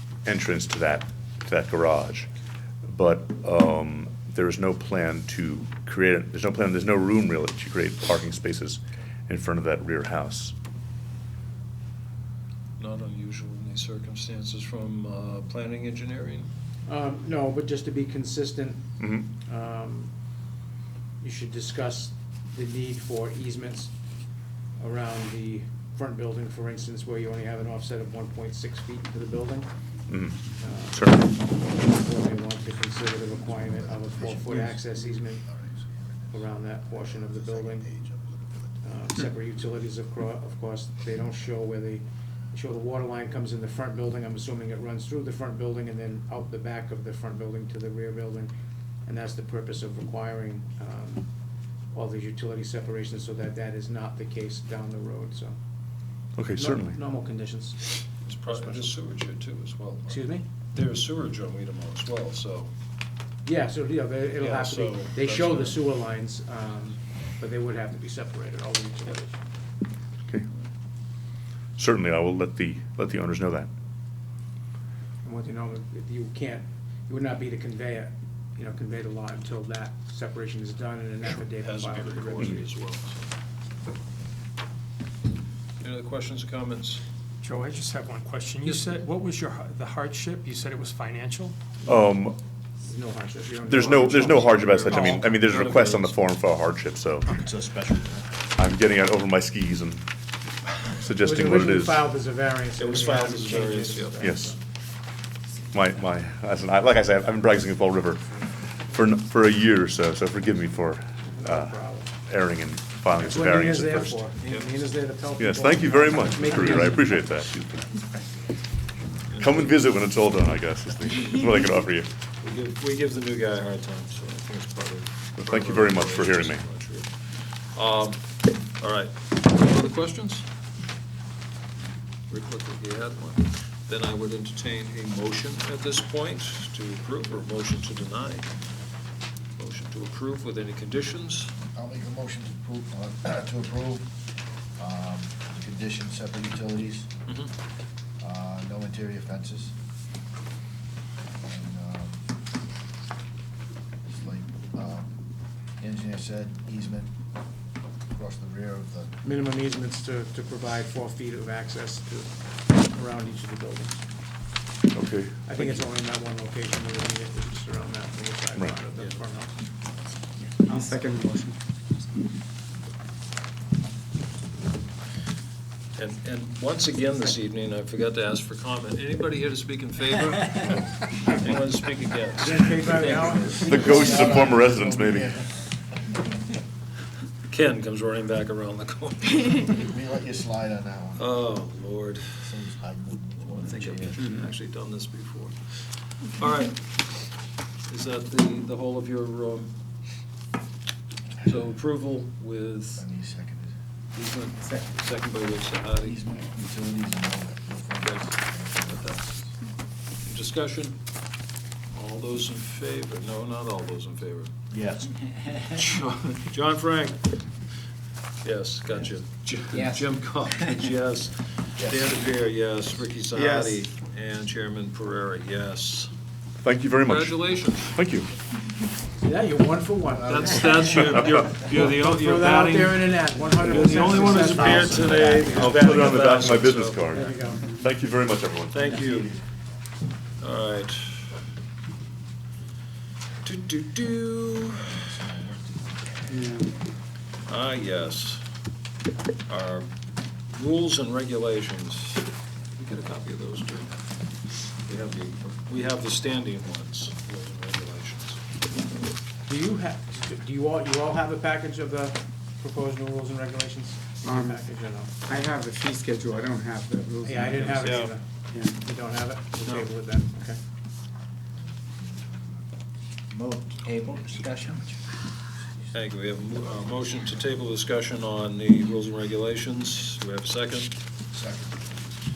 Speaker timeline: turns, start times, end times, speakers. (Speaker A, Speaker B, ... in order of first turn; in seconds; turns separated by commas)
Speaker A: 0.2-2.3, Speaker A: 2.8-10.5, Speaker B: 12.8-16.5, Speaker C: 16.9-18.9, Speaker A: 19.0-19.3, Speaker C: 19.4-20.1, Speaker C: 21.2-23.9, Speaker C: 24.8-29.7, Speaker A: 30.1-30.4, Speaker C: 30.6-35.4, Speaker A: 30.9-31.2, Speaker D: 33.5-38.8, Speaker C: 36.3-37.9, Speaker C: 38.8-48.5, Speaker C: 49.0-51.3, Speaker C: 51.9-55.5, Speaker A: 56.4-57.0, Speaker C: 56.5-58.9, Speaker B: 58.2-62.7, Speaker C: 60.1-60.4, Speaker C: 63.4-69.3, Speaker B: 64.4-65.8, Speaker A: 71.8-73.7, Speaker C: 75.2-82.7, Speaker B: 81.2-83.2, Speaker B: 85.8-87.0, Speaker E: 87.4-91.6, Speaker A: 91.8-92.4, Speaker C: 92.8-94.5, Speaker A: 93.6-97.4, Speaker B: 94.4-96.2, Speaker E: 94.8-95.4, Speaker D: 97.3-98.3, Speaker A: 98.5-100.0, Speaker A: 100.9-102.0, Speaker C: 101.2-104.6, Speaker B: 102.8-104.4, Speaker A: 104.2-104.5, Speaker A: 105.7-108.4, Speaker A: 108.9-114.2, Speaker C: 111.2-112.1, Speaker C: 113.1-117.1, Speaker B: 114.4-114.7, Speaker A: 115.4-117.7, Speaker B: 119.3-119.7, Speaker A: 119.4-122.1, Speaker B: 122.4-130.4, Speaker A: 125.4-126.6, Speaker B: 132.3-138.5, Speaker B: 139.6-141.5, Speaker D: 141.7-144.1, Speaker D: 144.8-147.1, Speaker D: 148.2-149.7, Speaker D: 151.4-152.2, Speaker D: 154.1-155.2, Speaker D: 155.8-157.1, Speaker D: 158.1-159.2, Speaker C: 159.2-164.0, Speaker A: 164.9-165.8, Speaker C: 165.4-169.5, Speaker F: 170.6-171.6, Speaker B: 175.9-184.2, Speaker C: 182.4-184.2, Speaker D: 183.1-185.6, Speaker A: 183.5-185.3, Speaker B: 187.5-189.8, Speaker D: 189.6-191.3, Speaker B: 191.2-192.5, Speaker D: 192.4-194.3, Speaker B: 193.4-195.6, Speaker B: 196.2-196.9, Speaker B: 197.9-199.7, Speaker B: 201.4-203.1, Speaker D: 202.9-203.7, Speaker B: 204.1-206.2, Speaker D: 206.0-209.5, Speaker B: 208.0-209.2, Speaker B: 210.2-211.0, Speaker B: 211.9-214.5, Speaker D: 214.7-215.2, Speaker B: 215.7-217.5, Speaker B: 218.4-226.1, Speaker F: 219.7-220.7, Speaker D: 221.8-222.2, Speaker D: 223.4-223.7, Speaker A: 226.6-228.3, Speaker B: 227.0-228.0, Speaker C: 229.2-230.9, Speaker D: 230.1-231.1, Speaker B: 230.2-237.2, Speaker C: 231.6-236.3, Speaker A: 235.4-238.9, Speaker C: 237.1-237.7, Speaker B: 238.7-239.3, Speaker D: 238.9-239.4, Speaker B: 240.4-241.3, Speaker B: 243.4-245.0, Speaker D: 245.0-246.0, Speaker F: 246.3-246.7, Speaker B: 247.4-248.4, Speaker B: 249.5-249.9, Speaker B: 250.5-258.4, Speaker C: 259.4-265.2, Speaker F: 264.2-264.6, Speaker F: 265.2-268.0, Speaker C: 267.2-270.6, Speaker B: 267.8-268.1, Speaker F: 268.5-268.8, Speaker D: 271.6-272.6, Speaker F: 273.4-274.9, Speaker B: 275.9-280.9, Speaker D: 281.3-281.8